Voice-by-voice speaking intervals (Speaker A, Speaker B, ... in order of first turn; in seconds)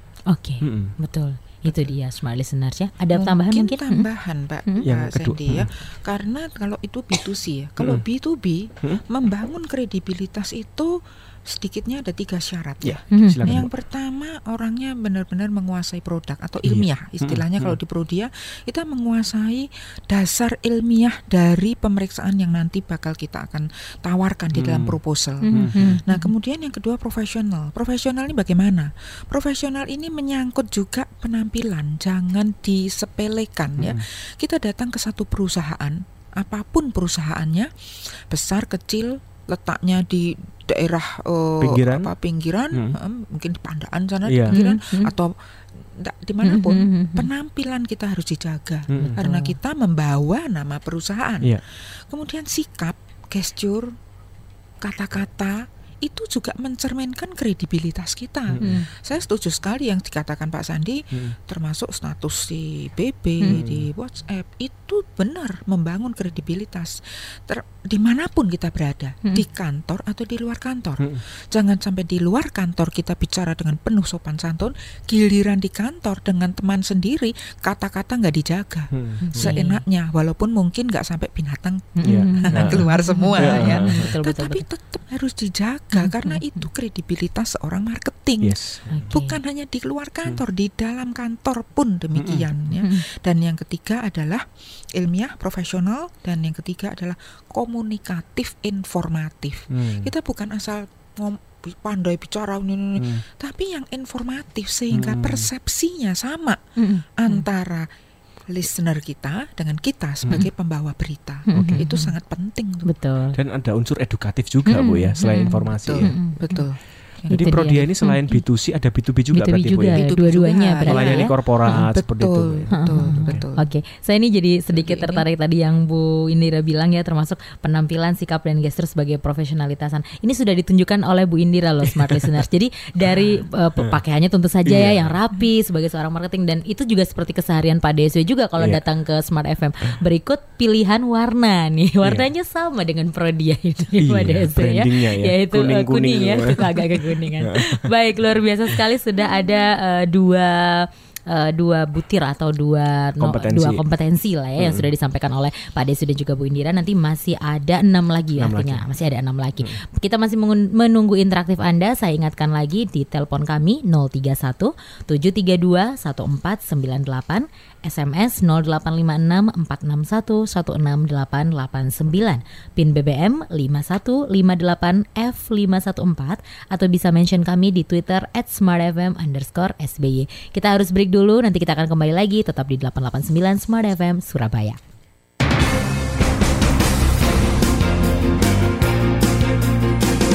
Speaker A: 0.3-4.0, 13.1-13.4, 25.4-26.3, 44.5-45.1, 46.4-47.3, 49.0-49.5, 58.6-58.9, 79.2-79.8, 82.0-84.6, 86.0-86.7, 88.9-89.4, 92.8-93.0, 106.8-107.4, 111.5-112.1, 112.8-113.4, 114.7-116.6, 117.3-118.4, 119.3-121.8, 122.8-184.8
Speaker B: 0.6-0.9, 4.8-5.7, 12.8-13.7, 16.6-17.8, 24.5-25.0, 25.5-26.0, 33.8-34.0, 41.6-42.1, 44.2-44.6, 48.9-49.1, 63.5-63.9, 78.9-79.5, 82.0-84.1, 88.4-89.1, 92.1-92.5, 99.7-100.1, 103.0-103.2, 104.9-105.5, 110.2-110.5, 111.5-111.8, 113.3-116.1, 117.3-120.0, 120.8-123.4, 131.9-132.4, 133.0-134.0, 134.7-135.2, 144.0-147.8, 153.2-153.8, 154.6-154.9, 158.4-158.8
Speaker C: 3.1-53.9, 54.8-88.6, 89.1-106.6, 107.2-107.9, 108.5-112.9, 115.8-117.5, 119.9-123.6, 124.8-125.2